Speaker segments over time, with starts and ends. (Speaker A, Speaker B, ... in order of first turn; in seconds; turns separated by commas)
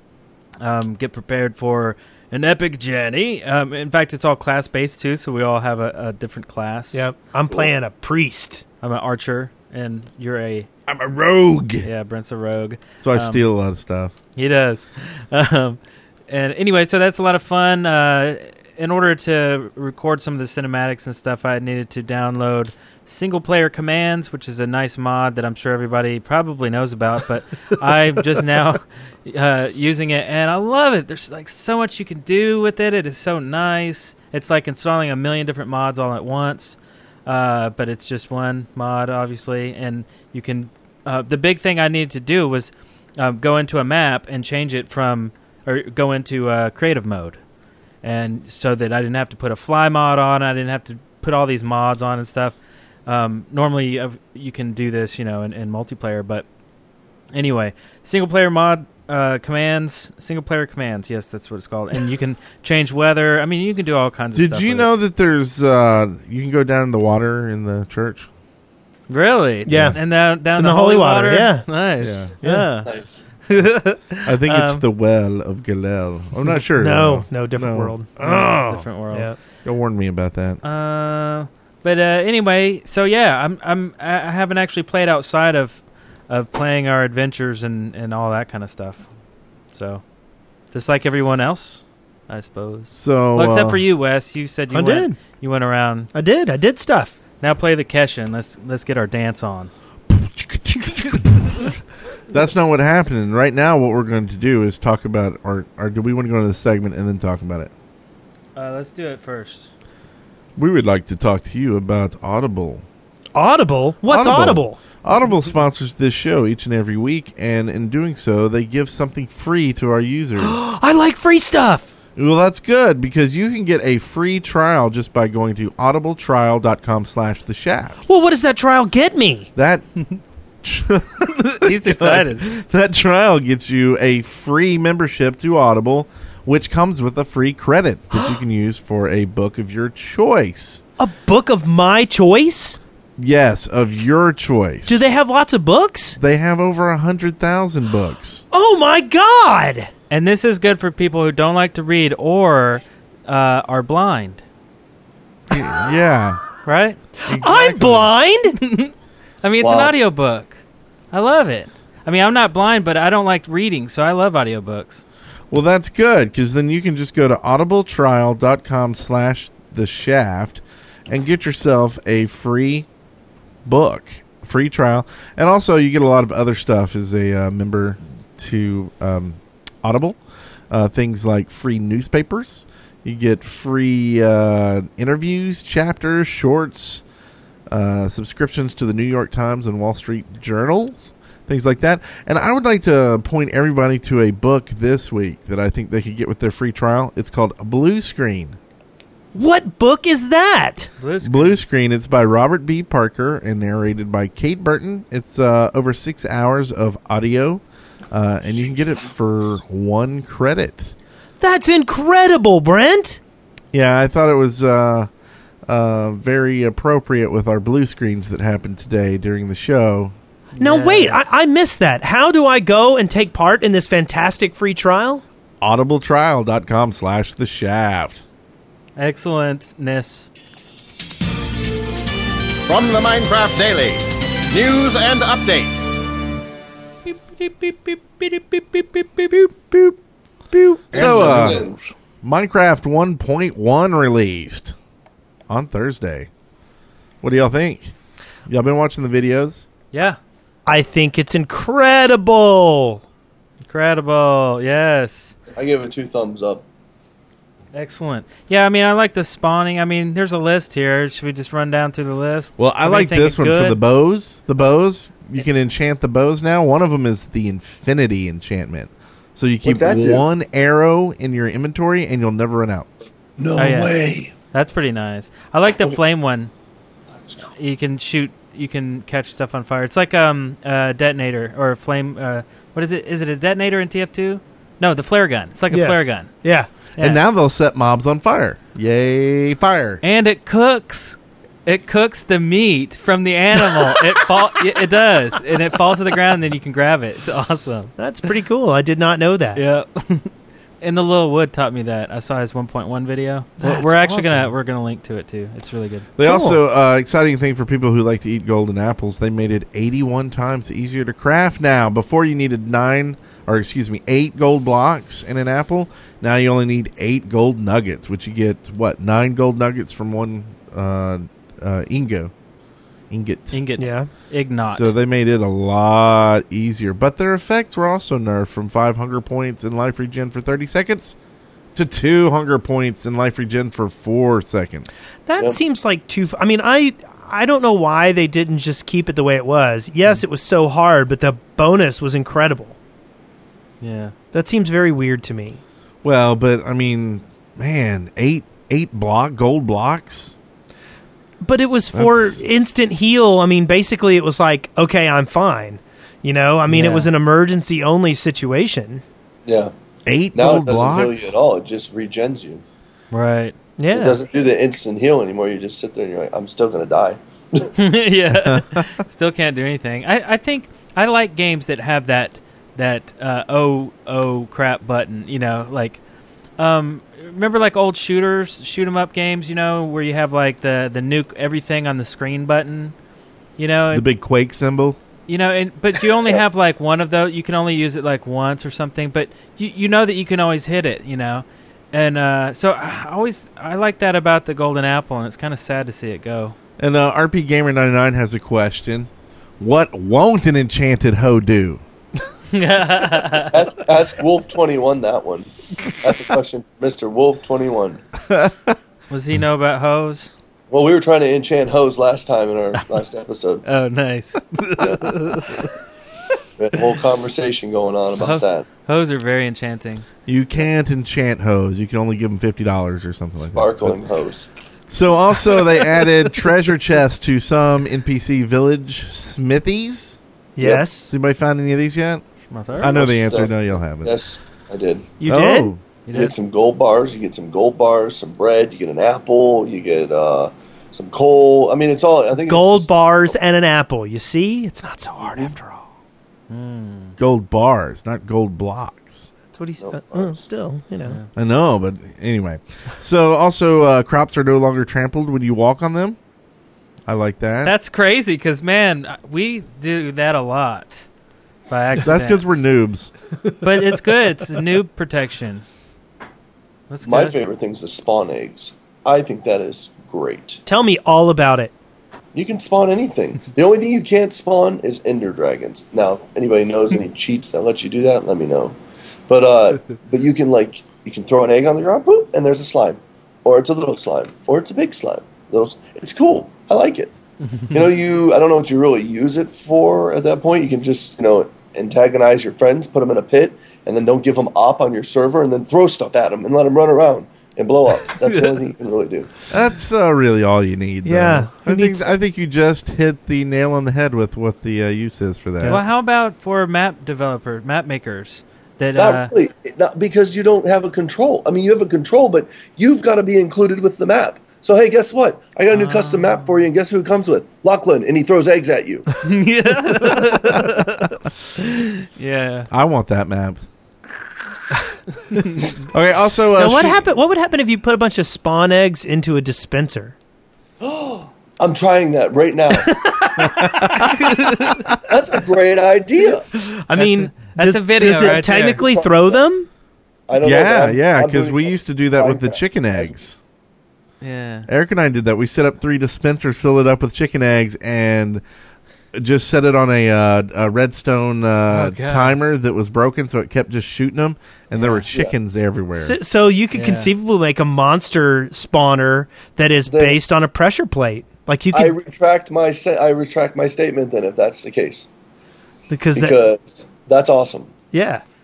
Speaker A: 0.6-7.0, Speaker B: 6.9-8.6, Speaker A: 8.8-10.7, Speaker C: 10.9-11.9, Speaker A: 11.8-13.4, Speaker C: 13.0-14.1, Speaker A: 14.4-47.4, Speaker A: 48.0-56.5, Speaker A: 57.3-64.9, Speaker C: 64.3-68.3, Speaker A: 69.1-72.9, Speaker B: 69.7-71.7, Speaker C: 69.7-70.0, Speaker C: 72.0-72.4, Speaker D: 72.9-73.2, Speaker A: 73.4-74.8, Speaker C: 74.2-78.9, Speaker B: 76.8-78.5, Speaker A: 78.2-79.3, Speaker B: 79.1-79.4, Speaker C: 79.6-80.6, Speaker A: 80.6-89.0, Speaker A: 89.7-90.0, Speaker A: 90.7-96.1, Speaker C: 93.0-93.8, Speaker B: 94.7-95.2, Speaker B: 96.1-97.2, Speaker A: 97.4-99.7, Speaker C: 100.1-107.7, Speaker A: 108.6-109.7, Speaker C: 110.6-112.8, Speaker B: 113.3-114.8, Speaker C: 114.1-120.6, Speaker B: 120.4-121.9, Speaker C: 122.2-128.0, Speaker B: 128.1-129.5, Speaker C: 129.6-130.0, Speaker C: 130.6-140.8, Speaker A: 131.6-132.4, Speaker B: 141.0-142.8, Speaker C: 143.2-145.1, Speaker B: 144.9-146.2, Speaker C: 146.2-148.4, Speaker B: 148.5-149.9, Speaker A: 150.1-154.4, Speaker C: 155.5-156.4, Speaker A: 156.6-157.0, Speaker B: 157.2-158.6, Speaker C: 157.3-158.1, Speaker A: 158.6-160.6, Speaker D: 159.6-159.9, Speaker A: 161.1-165.0, Speaker C: 165.5-172.9, Speaker C: 173.6-180.2, Speaker C: 180.7-187.0, Speaker C: 187.7-191.0, Speaker C: 191.5-198.6, Speaker B: 199.3-200.9, Speaker A: 201.0-201.6, Speaker C: 201.2-210.9, Speaker B: 211.4-213.2, Speaker C: 213.7-215.1, Speaker C: 215.7-220.1, Speaker A: 220.6-221.2, Speaker B: 220.6-225.2, Speaker C: 225.6-228.2, Speaker A: 229.0-230.3, Speaker E: 232.7-236.0, Speaker A: 237.1-239.4, Speaker C: 239.3-240.0, Speaker C: 240.5-241.6, Speaker D: 240.9-241.8, Speaker C: 242.2-244.8, Speaker C: 245.5-246.3, Speaker C: 247.2-247.9, Speaker C: 248.5-249.7, Speaker A: 249.9-250.2, Speaker B: 250.7-253.0, Speaker A: 253.7-255.3, Speaker D: 255.6-256.6, Speaker A: 257.7-263.8, Speaker C: 262.6-272.9, Speaker D: 269.6-270.2, Speaker D: 273.4-274.3, Speaker A: 273.6-276.5, Speaker D: 277.2-277.5, Speaker A: 277.6-286.3, Speaker B: 285.7-286.7, Speaker C: 287.0-290.0, Speaker A: 290.0-297.9, Speaker B: 293.7-294.0, Speaker B: 298.0-299.6, Speaker A: 299.6-306.1, Speaker B: 303.6-304.5, Speaker C: 306.2-322.3, Speaker B: 306.2-306.6, Speaker C: 323.1-323.6, Speaker A: 323.5-324.9, Speaker B: 323.8-324.1, Speaker C: 324.6-331.1, Speaker C: 331.8-334.9, Speaker B: 335.3-342.8, Speaker A: 343.8-344.1, Speaker B: 344.3-345.6, Speaker C: 346.0-350.4, Speaker B: 351.4-359.0, Speaker C: 351.9-352.4, Speaker A: 356.7-357.1, Speaker D: 359.5-359.7, Speaker C: 360.1-361.4, Speaker D: 360.4-362.6, Speaker A: 363.1-363.6, Speaker B: 363.8-364.2, Speaker D: 363.9-367.7, Speaker A: 367.8-376.0, Speaker C: 368.3-368.9, Speaker A: 376.6-382.9, Speaker A: 383.6-384.1, Speaker C: 383.9-385.0, Speaker A: 385.3-396.6, Speaker C: 396.8-399.1, Speaker C: 399.6-401.8, Speaker A: 402.5-403.6, Speaker D: 403.5-408.0, Speaker C: 408.2-408.8, Speaker A: 409.1-410.3, Speaker D: 410.7-413.6, Speaker A: 413.6-415.7, Speaker D: 414.8-415.1, Speaker D: 416.6-418.6, Speaker A: 418.2-420.1, Speaker C: 420.3-424.0, Speaker D: 423.4-424.5, Speaker C: 424.9-430.2, Speaker B: 430.6-431.1, Speaker D: 430.6-430.9, Speaker C: 431.1-432.2, Speaker A: 432.5-433.0, Speaker C: 432.8-434.2, Speaker D: 432.8-435.1, Speaker B: 435.2-435.7, Speaker C: 435.3-435.8, Speaker A: 436.1-436.4, Speaker D: 436.1-443.0, Speaker B: 442.5-445.9, Speaker D: 445.2-445.5, Speaker A: 446.5-447.2, Speaker C: 447.2-449.3, Speaker B: 449.5-451.2, Speaker D: 449.8-450.4, Speaker C: 451.4-456.2, Speaker C: 457.1-457.8, Speaker A: 457.6-461.0, Speaker A: 461.7-462.6, Speaker C: 462.0-463.1, Speaker A: 463.6-465.6, Speaker A: 466.9-467.4, Speaker D: 467.0-470.6, Speaker B: 470.6-471.7, Speaker D: 472.3-478.8, Speaker D: 479.3-487.1, Speaker A: 487.6-487.9, Speaker D: 487.7-499.3, Speaker C: 499.5-505.8, Speaker B: 501.1-502.1, Speaker A: 505.6-509.3, Speaker D: 509.0-519.1, Speaker A: 515.7-516.7, Speaker A: 519.2-522.7, Speaker C: 522.7-523.6, Speaker A: 525.3-525.6, Speaker C: 525.9-527.0, Speaker B: 526.6-530.1, Speaker D: 530.8-533.0, Speaker C: 533.4-534.2, Speaker A: 534.2-534.8, Speaker D: 535.1-536.5, Speaker B: 536.6-539.7, Speaker A: 536.9-538.8, Speaker D: 538.1-539.4, Speaker D: 540.3-543.2, Speaker C: 540.4-543.4, Speaker A: 544.2-544.7, Speaker C: 544.7-548.4, Speaker C: 549.1-556.2, Speaker A: 551.7-552.4, Speaker A: 554.8-555.1, Speaker B: 556.0-562.0, Speaker A: 556.7-557.1, Speaker D: 559.9-560.2, Speaker D: 561.7-565.1, Speaker B: 565.9-566.4, Speaker D: 566.1-567.7, Speaker B: 567.9-568.2